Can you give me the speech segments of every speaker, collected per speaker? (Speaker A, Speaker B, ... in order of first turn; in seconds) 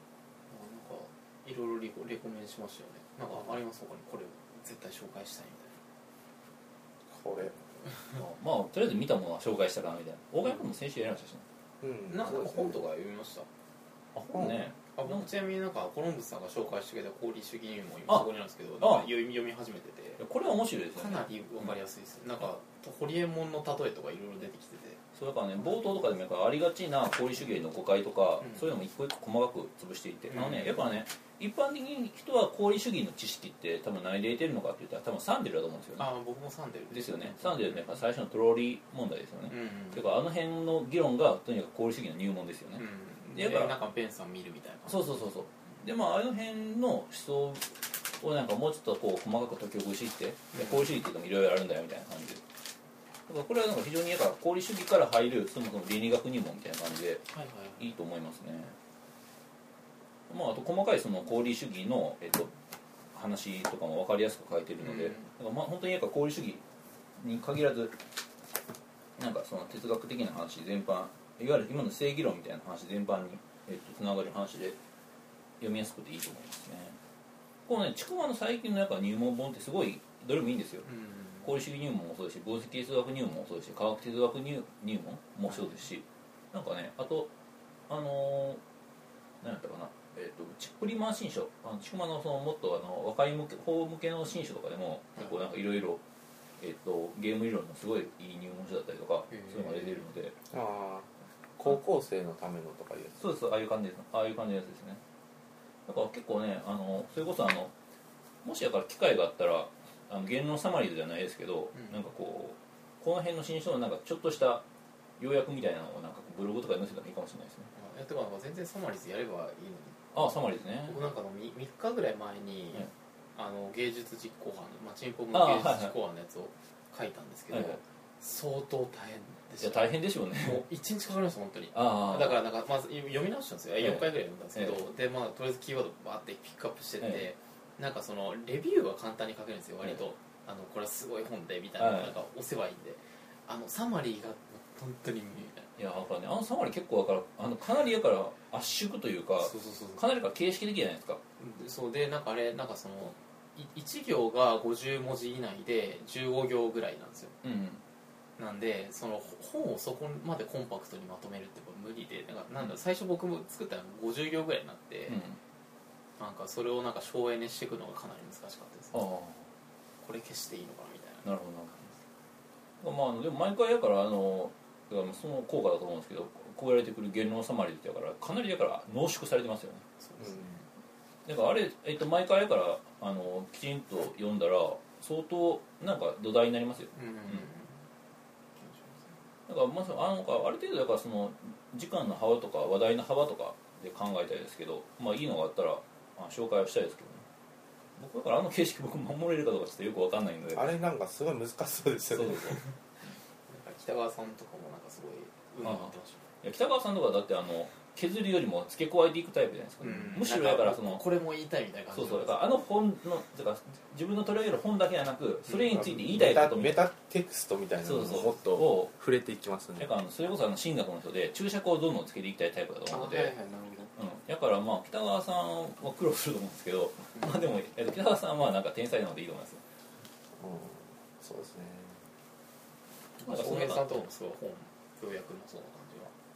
Speaker A: 0.5-5.8, 12.1-13.5, 14.9-20.2, 20.9-25.0, 30.3-30.9, 36.0-37.9, 39.5-40.0, 42.8-45.1, 50.5-51.0, 57.3-57.9, 64.8-65.3, 80.8-81.5, 85.5-85.8, 99.3-100.0, 111.7-112.0, 117.7-120.1, 120.8-145.7, 149.4-150.0, 151.4-157.3, 158.4-165.2, 166.2-169.0, 170.0-171.3, 180.0-180.7, 186.9-187.8, 188.6-189.1, 203.5-206.3, 209.8-212.5, 215.5-215.8, 222.9-223.9, 227.2-227.5, 233.2-236.1
Speaker B: 7.1-7.5, 11.8-12.8, 14.3-14.7, 100.5-103.2, 200.5-202.6, 215.7-219.9, 230.4-232.0
Speaker C: 8.1-11.4, 14.1-15.2, 18.8-19.1, 20.2-21.7, 25.1-36.1, 36.9-43.8, 44.9-52.4, 53.3-57.2, 57.8-58.7, 60.3-62.5, 63.1-66.6, 67.2-68.0, 69.2-74.8, 75.6-77.0, 77.7-80.9, 81.4-87.3, 87.9-88.6, 89.4-96.0, 96.6-100.3, 103.2-105.0, 105.9-107.7, 108.4-114.6, 115.2-117.7, 120.1-121.0, 125.3-125.9, 127.5-127.8, 129.6-130.7, 131.7-132.4, 133.8-134.8, 137.0-137.3, 141.8-142.1, 145.8-151.2, 157.4-157.8, 165.1-165.4, 168.9-169.5, 171.2-171.9, 172.8-179.8, 181.2-187.4, 189.5-197.2, 198.0-200.7, 202.1-202.6, 205.6-211.0, 211.9-216.9, 217.8-218.9, 219.8-223.3, 223.9-229.6, 233.2-234.0